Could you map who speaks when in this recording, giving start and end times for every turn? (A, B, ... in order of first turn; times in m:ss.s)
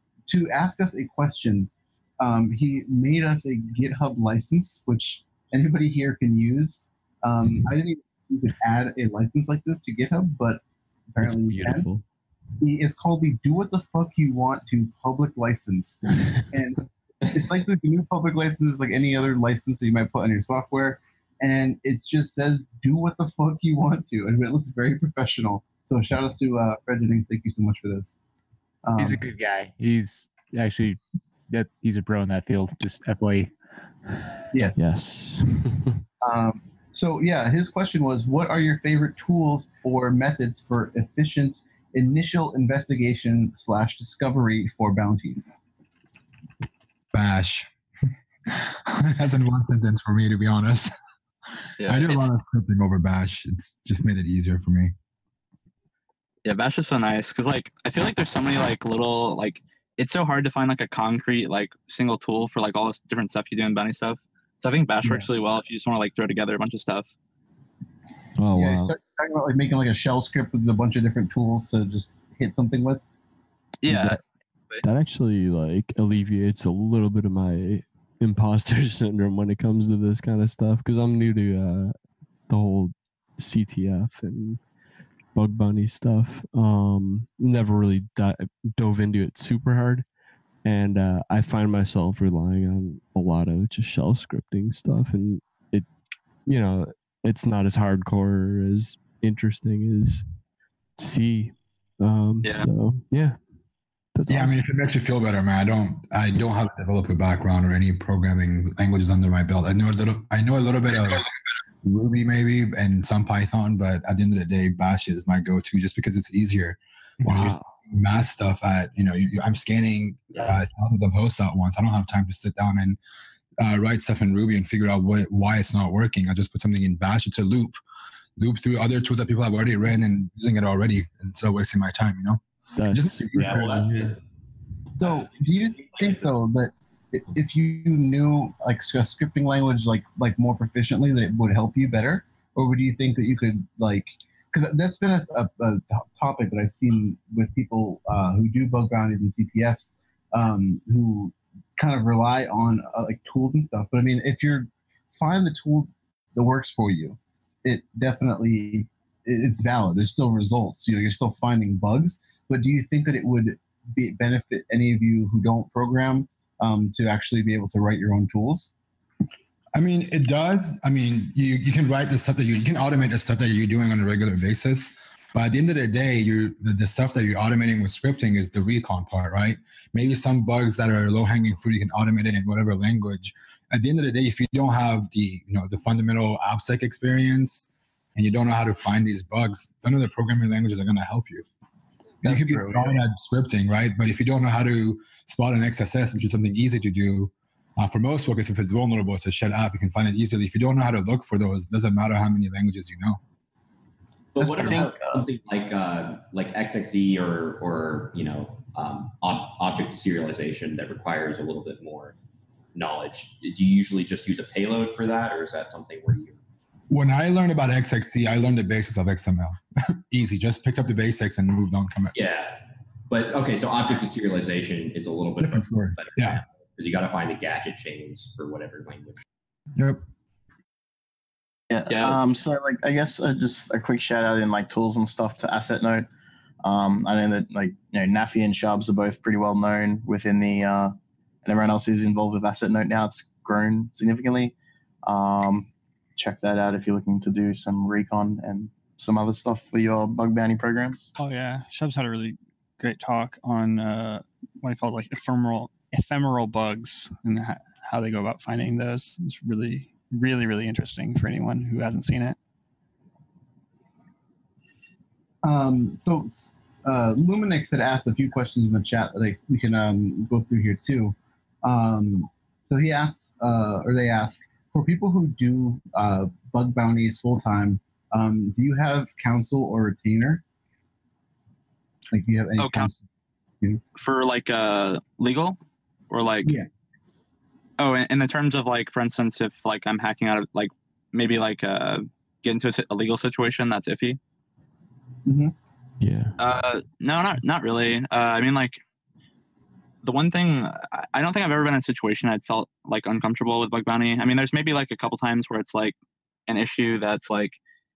0:00.3-0:11.9 A
0:11.2-0:12.0 B
0:12.6-0:16.8 A
0:17.3-0:28.2 A
0:28.8-0:29.3 A
0:29.0-0:31.0 C
0:31.5-0:33.5 C
0:34.5-0:34.8 A
0:34.8-0:35.9 B
0:36.2-0:45.6 A
0:47.1-0:47.7 D
0:48.9-0:50.9 D
0:51.8-0:52.3 E
0:51.8-0:54.9 D
0:56.4-1:07.1 E
1:05.0-1:05.3 A
1:08.4-1:08.9 B
1:08.5-1:13.0 A
1:13.8-1:14.2 E
1:13.9-1:14.2 B
1:14.8-1:21.9 B
1:22.5-1:24.6 B
1:25.4-1:30.0 B
1:30.6-1:35.9 B
1:36.4-1:40.3 B
1:41.0-1:43.4 B
1:42.4-1:42.7 E
1:44.2-1:44.6 B
1:44.3-1:51.2 D
1:51.8-2:03.0 D
1:57.3-1:57.7 B
2:03.6-2:07.8 D
2:08.4-2:12.4 D
2:12.8-2:14.1 B
2:12.9-2:14.1 D
2:13.5-2:13.8 F
2:15.0-2:48.7 A
2:15.0-2:16.3 F
2:49.7-3:11.4 D
3:12.2-3:23.2 D
3:12.2-3:13.0 A
3:24.4-3:32.2 F
3:24.4-3:24.9 A
3:24.6-3:25.2 G
3:32.7-3:36.4 F
3:36.9-3:42.2 D
3:42.1-3:49.2 F
3:45.4-3:46.4 D
3:49.8-3:50.0 D
3:51.7-3:56.1 G
3:51.9-3:52.2 E
3:56.6-4:00.9 G
4:01.4-4:11.1 G
4:11.2-4:22.4 H
4:25.4-4:40.4 A
4:42.1-4:43.0 A
4:42.6-4:42.9 E
4:44.0-4:45.6 E
4:46.1-4:46.6 E
4:47.8-4:54.2 E
4:55.2-4:55.5 A
4:56.0-4:56.3 B
4:56.4-4:58.8 E
5:00.0-5:05.9 E
5:06.5-5:07.6 E